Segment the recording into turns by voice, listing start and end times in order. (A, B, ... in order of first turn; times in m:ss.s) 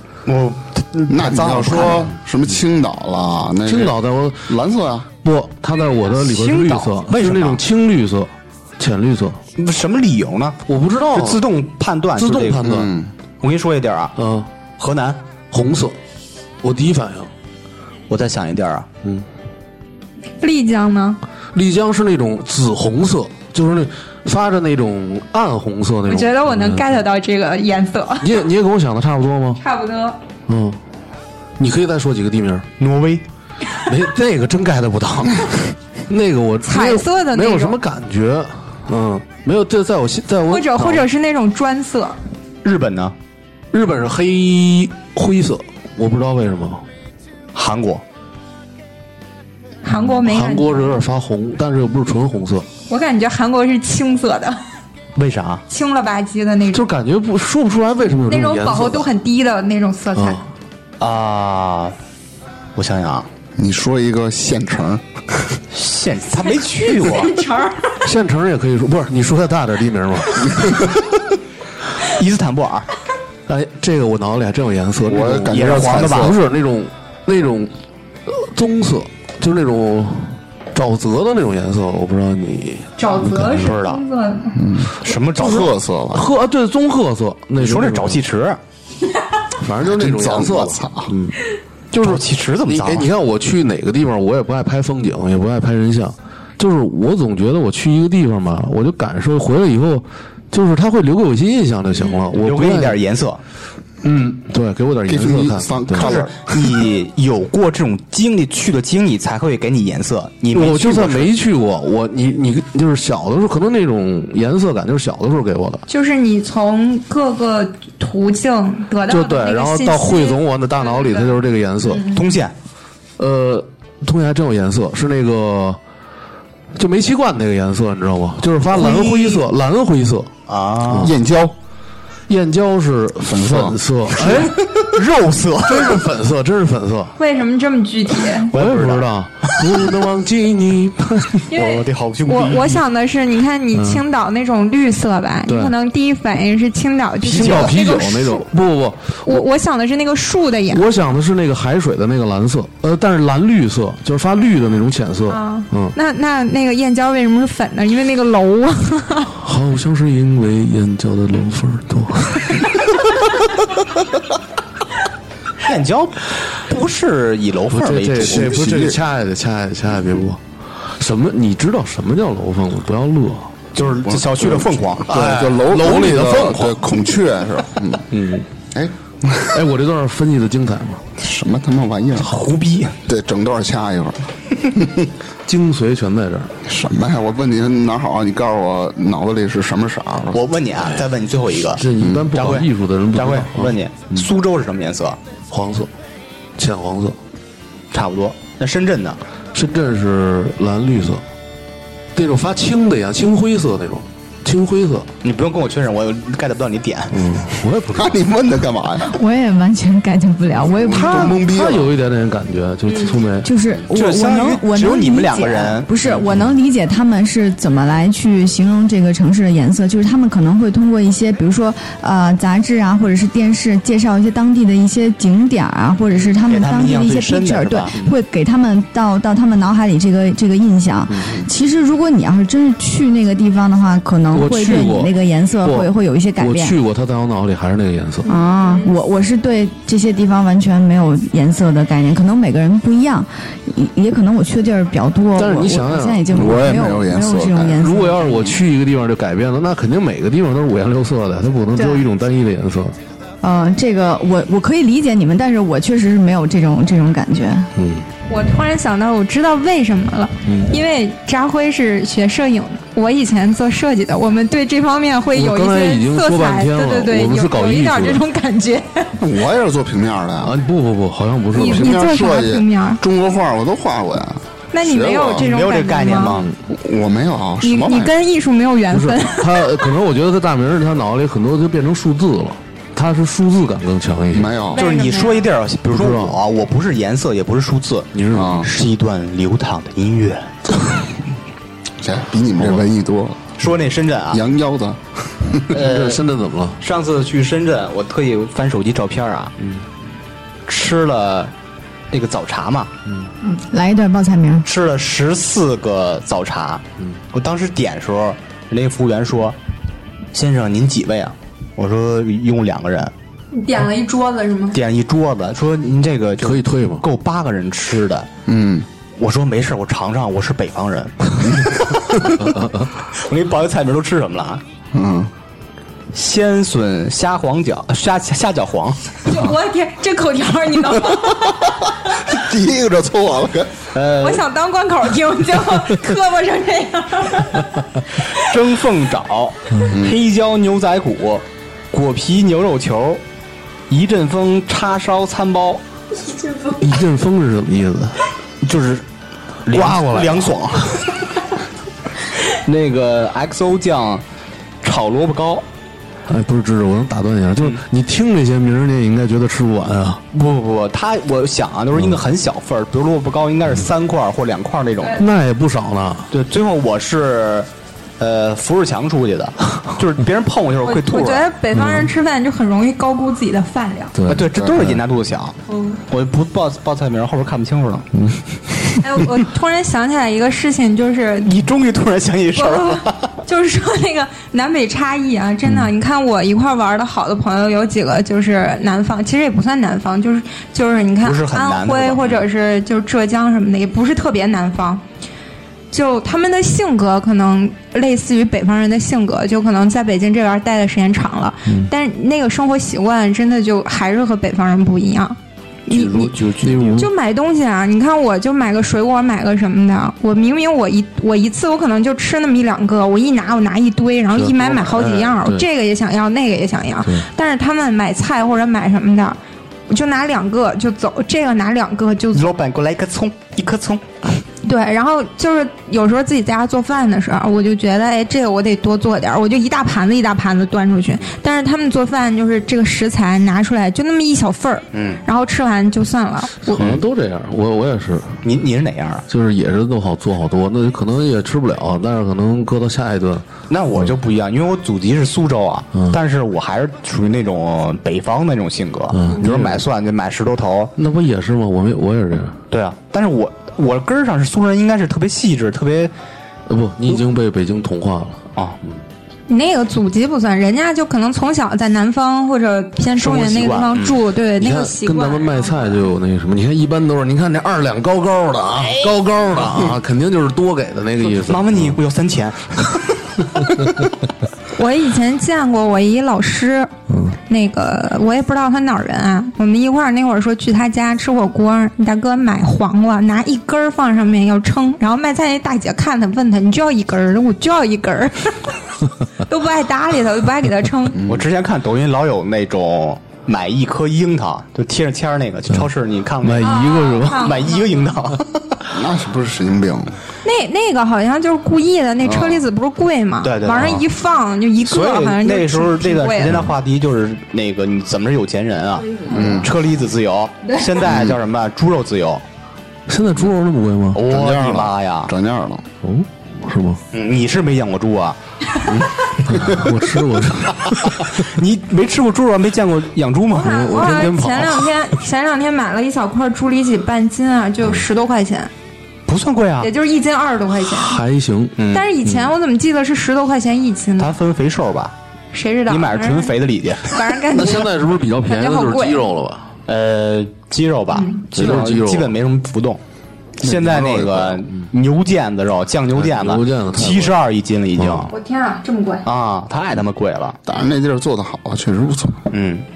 0:00.3-0:02.1 A
0:01.1-0:05.1 B
0:03.7-0:04.5 C
0:05.2-0:09.4 C
0:06.1-0:07.6 A
0:09.6-0:12.8 A
0:10.7-0:11.4 C
0:12.2-0:12.9 C
0:12.6-0:13.1 B
0:13.4-0:14.2 A
0:14.2-0:14.5 C
0:14.8-0:15.2 A
0:15.5-0:16.0 C
0:16.6-0:17.3 C
0:18.1-0:18.9 A
0:20.4-0:21.2 D
0:21.5-0:27.0 C
0:26.1-0:28.3 D
0:28.2-0:29.6 C
0:29.6-0:30.2 D
0:30.5-0:30.8 C
0:31.6-0:32.7 C
0:32.8-0:33.2 A
0:33.9-0:41.1 C
0:36.6-0:37.8 D
0:40.5-0:42.2 D
0:42.6-0:43.2 A
0:43.7-0:46.8 C
0:47.5-0:48.0 A
0:49.8-0:51.0 D
0:49.9-0:52.7 C
0:52.9-0:54.6 D
0:55.2-0:55.6 A
0:55.7-0:56.8 D
0:56.7-0:59.1 C
0:58.3-1:00.4 D
1:00.2-1:00.4 C
1:01.0-1:02.0 A
1:02.8-1:03.3 A
1:03.6-1:05.0 B
1:05.7-1:07.4 A
1:06.7-1:08.0 D
1:08.0-1:10.9 C
1:12.1-1:12.9 A
1:13.5-1:17.7 C
1:15.1-1:16.4 B
1:15.5-1:16.4 A
1:18.3-1:23.7 C
1:23.0-1:24.6 D
1:23.6-1:24.0 A
1:24.6-1:26.3 B
1:25.0-1:25.7 A
1:25.4-1:28.2 C
1:27.6-1:28.6 A
1:29.6-1:31.4 C
1:29.8-1:31.1 B
1:31.9-1:43.0 C
1:32.0-1:33.1 A
1:42.1-1:43.4 A
1:44.0-1:46.2 C
1:45.1-1:46.8 B
1:46.0-1:51.3 A
1:50.5-1:55.8 C
1:55.9-2:02.2 D
1:59.1-2:02.1 C
2:02.1-2:02.5 A
2:03.2-2:05.8 C
2:06.8-2:10.3 C
2:08.8-2:09.4 D
2:10.5-2:11.2 A
2:10.9-2:11.2 C
2:11.0-2:11.6 B
2:12.3-2:14.6 C
2:13.2-2:13.8 B
2:14.2-2:16.0 A
2:15.7-2:17.2 C
2:17.2-2:18.5 D
2:18.5-2:19.9 A
2:18.5-2:21.4 C
2:21.5-2:22.8 A
2:21.5-2:28.5 D
2:23.7-2:24.0 C
2:25.5-2:25.7 C
2:27.2-2:29.4 C
2:27.4-2:27.7 A
2:29.3-2:30.9 D
2:30.7-2:36.0 C
2:35.3-2:39.3 D
2:39.4-2:42.9 C
2:45.6-2:48.7 A
2:47.7-2:53.6 C
2:48.2-2:49.0 B
2:53.8-2:55.3 A
2:54.0-2:58.1 B
2:55.1-2:56.9 C
2:58.1-2:58.5 C
2:58.7-2:59.6 B
2:59.5-3:01.0 C
3:01.2-3:02.4 B
3:02.2-3:03.0 A
3:03.0-3:05.1 B
3:05.5-3:06.5 C
3:06.6-3:10.4 B
3:10.3-3:15.2 A
3:11.8-3:14.2 C
3:12.0-3:12.3 B
3:15.5-3:15.9 C
3:16.6-3:17.2 C
3:17.9-3:19.2 A
3:19.5-3:21.2 C
3:22.2-3:25.1 C
3:25.2-3:27.3 A
3:27.1-3:28.2 C
3:27.9-3:29.1 B
3:29.0-3:31.3 E
3:30.7-3:31.9 B
3:30.9-3:33.5 C
3:33.4-3:56.8 E
3:33.9-3:36.2 A
3:46.5-3:48.0 A
3:51.1-3:51.4 C
3:54.3-3:55.1 C
3:55.6-3:58.3 C
3:58.3-4:08.5 E
3:58.6-3:58.9 D
4:05.4-4:06.6 C
4:06.3-4:07.8 B
4:07.8-4:13.0 C
4:11.8-4:12.0 E
4:13.4-4:17.7 E
4:17.8-4:18.1 C
4:18.3-4:29.2 D
4:20.5-4:20.8 C
4:25.3-4:28.2 C
4:29.2-4:30.6 B
4:30.4-4:32.0 C
4:31.5-4:33.0 D
4:31.6-4:35.5 B
4:34.7-4:36.4 D
4:35.4-4:36.5 A
4:36.7-4:38.1 B
4:37.6-4:39.9 D
4:38.9-4:44.6 C
4:44.3-4:44.9 B
4:44.7-4:45.5 D
4:44.8-4:50.5 A
4:45.9-4:46.4 C
4:48.1-4:48.7 C
4:48.3-4:48.7 B
4:52.0-4:53.5 B
4:53.6-4:54.4 A
4:54.3-4:55.8 B
4:55.7-4:56.2 A
4:55.7-4:56.8 C
4:56.8-4:59.5 A
5:00.7-5:01.5 A
5:02.1-5:02.9 A
5:03.4-5:04.7 E
5:04.7-5:09.6 A
5:10.3-5:13.1 A
5:13.5-5:14.8 D
5:14.7-5:18.3 A
5:16.4-5:17.0 C
5:18.5-5:18.9 B
5:19.2-5:22.6 A
5:22.4-5:22.9 C
5:23.2-5:24.6 A
5:24.9-5:25.3 B
5:26.1-5:29.3 A
5:29.3-5:31.8 D
5:32.2-5:33.9 B
5:33.9-5:34.4 A
5:34.2-5:38.3 D
5:38.3-5:43.2 A
5:39.8-5:40.2 B
5:43.9-5:45.8 A
5:46.2-5:46.8 D
5:46.8-5:48.2 C
5:48.6-5:49.0 A
5:49.6-5:51.1 A
5:49.7-5:50.6 C
5:52.5-5:54.2 A
5:54.8-5:55.6 A
5:56.3-6:00.2 C
6:00.3-6:05.2 A
6:05.2-6:06.3 C
6:06.3-6:11.5 A
6:10.9-6:14.1 D
6:11.7-6:12.1 C
6:14.2-6:15.0 C
6:14.3-6:15.6 A
6:15.7-6:16.0 D
6:16.1-6:18.1 A
6:18.1-6:18.4 C
6:19.0-6:21.5 D
6:21.4-6:23.4 A
6:22.6-6:35.0 D
6:31.2-6:32.4 A
6:35.9-6:46.3 D
6:45.9-6:47.1 A
6:46.6-6:47.1 C
6:47.0-7:02.5 D
6:54.3-6:55.7 C
7:02.3-7:04.4 A
7:04.6-7:17.0 D
7:14.9-7:15.2 A
7:16.6-7:18.4 C
7:18.4-7:19.3 A
7:19.3-7:23.4 C
7:23.7-7:30.9 A
7:29.1-7:29.8 C
7:31.0-7:32.6 C
7:32.7-7:36.1 A
7:36.7-7:38.4 C
7:39.5-7:46.1 D
7:43.2-7:44.2 A
7:44.6-7:52.0 C
7:49.5-7:50.0 A
7:51.2-7:53.3 A
7:54.8-7:56.9 D
7:57.1-7:57.4 C
7:57.5-8:08.8 D
8:09.4-8:11.2 D
8:11.3-8:18.8 A
8:16.4-8:17.5 C
8:16.6-8:18.1 D
8:18.9-8:20.2 B
8:20.4-8:26.7 D
8:22.2-8:22.6 B
8:23.4-8:24.1 A
8:24.8-8:32.4 A
8:29.3-8:29.7 B
8:31.0-8:31.4 B
8:33.1-8:34.2 C
8:34.1-8:35.3 A
8:34.2-8:35.8 B
8:36.0-8:37.0 C
8:37.1-8:38.4 A
8:38.9-8:39.9 B
8:39.5-8:41.4 C
8:41.3-8:44.3 A
8:43.5-8:48.7 D
8:43.6-8:44.9 C
8:49.3-8:49.9 A
8:49.8-8:51.2 D
8:50.9-8:52.5 C
8:51.8-8:52.1 A
8:51.9-8:54.4 D
8:54.2-8:55.2 A
8:55.5-8:57.9 D
8:55.9-8:57.2 A
8:57.5-8:59.7 C
8:58.4-8:59.3 D
8:59.9-9:03.0 A
9:01.1-9:01.5 D
9:01.5-9:02.3 C
9:03.6-9:08.3 A
9:03.6-9:04.6 B
9:06.2-9:07.4 C
9:08.0-9:08.3 C
9:08.3-9:09.3 D
9:09.2-9:10.6 A
9:10.7-9:12.4 B
9:12.5-9:12.8 A